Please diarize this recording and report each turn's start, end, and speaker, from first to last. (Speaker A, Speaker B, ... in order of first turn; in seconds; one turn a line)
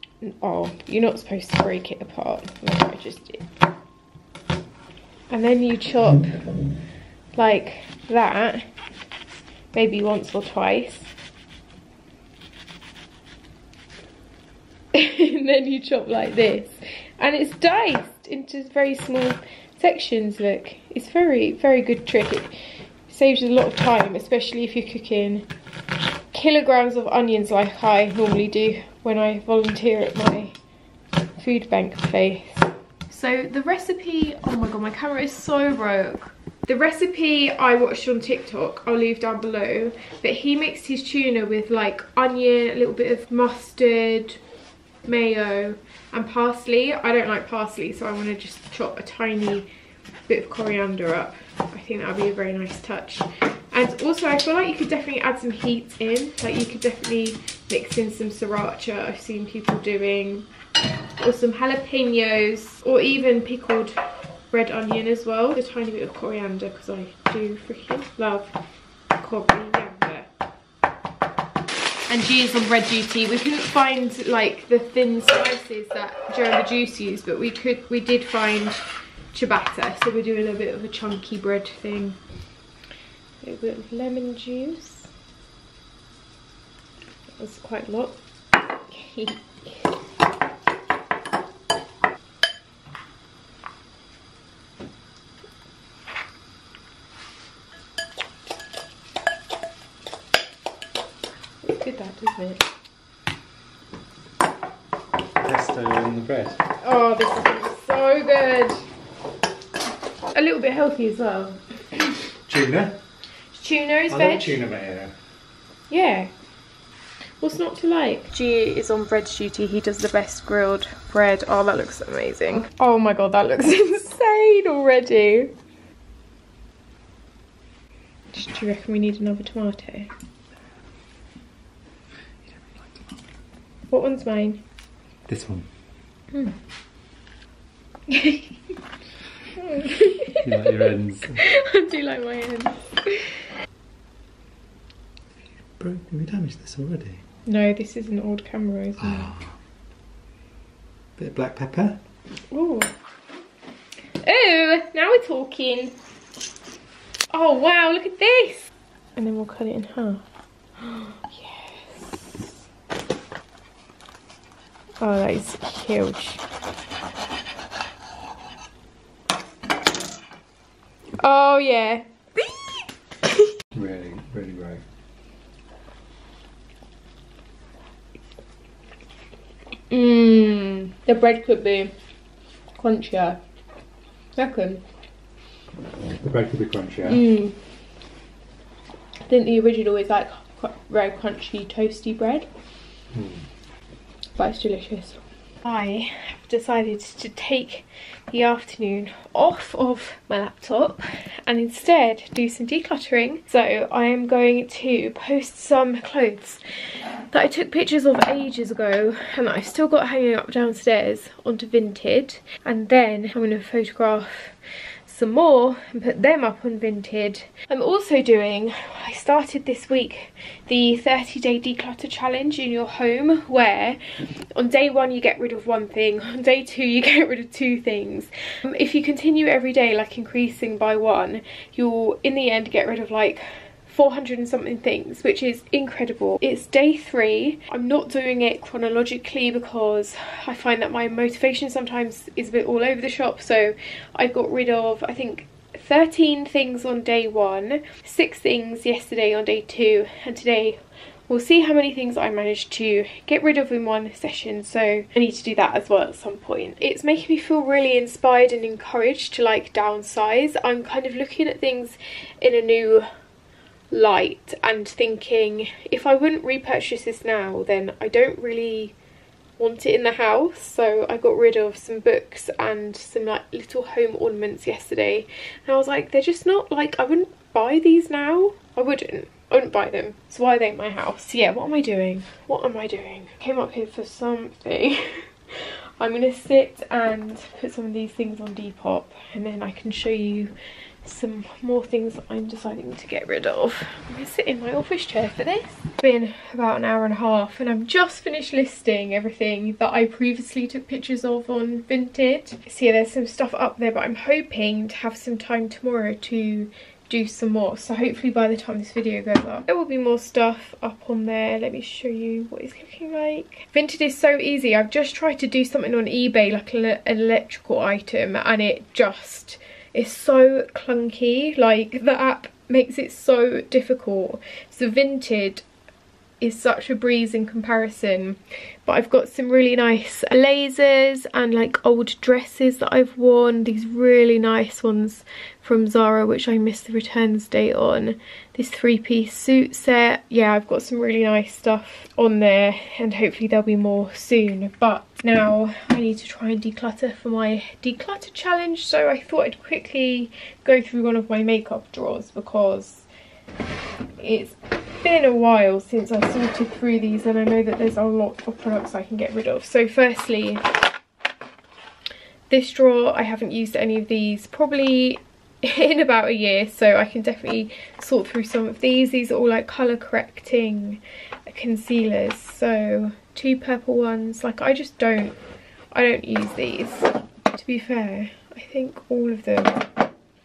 Speaker A: 0.2-3.5
Speaker A: 5.3-6.4
Speaker A: 7.3-8.7
Speaker A: 9.7-11.1
Speaker A: 14.9-22.6
Speaker A: 23.1-25.5
Speaker A: 26.3-30.6
Speaker A: 31.4-44.4
Speaker A: 45.0-49.7
Speaker A: 50.3-60.5
Speaker A: 61.2-64.0
Speaker A: 64.5-68.5
Speaker A: 69.2-70.3
Speaker A: 72.1-82.2
Speaker A: 83.4-85.1
Speaker A: 87.4-88.2
Speaker A: 88.9-89.8
Speaker A: 101.6-102.6
Speaker B: 105.4-106.6
Speaker A: 106.8-108.8
Speaker A: 110.3-111.6
Speaker B: 112.5-113.0
Speaker A: 113.5-114.6
Speaker B: 114.1-115.1
Speaker A: 115.9-116.3
Speaker A: 117.4-125.5
Speaker A: 128.3-130.1
Speaker A: 133.9-134.6
Speaker B: 135.3-135.7
Speaker A: 138.1-138.5
Speaker A: 139.6-140.8
Speaker B: 140.4-141.4
Speaker A: 141.3-143.4
Speaker B: 145.8-147.2
Speaker A: 147.5-149.4
Speaker B: 151.2-152.0
Speaker A: 152.5-152.9
Speaker A: 154.2-156.0
Speaker A: 157.3-160.2
Speaker A: 160.8-162.5
Speaker A: 165.0-166.4
Speaker A: 171.2-172.1
Speaker B: 173.7-174.8
Speaker A: 179.9-181.9
Speaker A: 182.8-183.4
Speaker A: 184.4-184.8
Speaker B: 186.1-187.3
Speaker A: 187.1-187.6
Speaker A: 189.2-192.5
Speaker B: 193.1-193.4
Speaker A: 194.4-206.6
Speaker A: 207.3-214.6
Speaker A: 215.1-224.0
Speaker A: 224.5-263.1
Speaker A: 263.9-268.9
Speaker A: 269.6-290.5
Speaker A: 291.0-325.6
Speaker A: 326.4-353.1
Speaker A: 354.2-360.6
Speaker A: 362.5-375.4
Speaker A: 375.9-379.9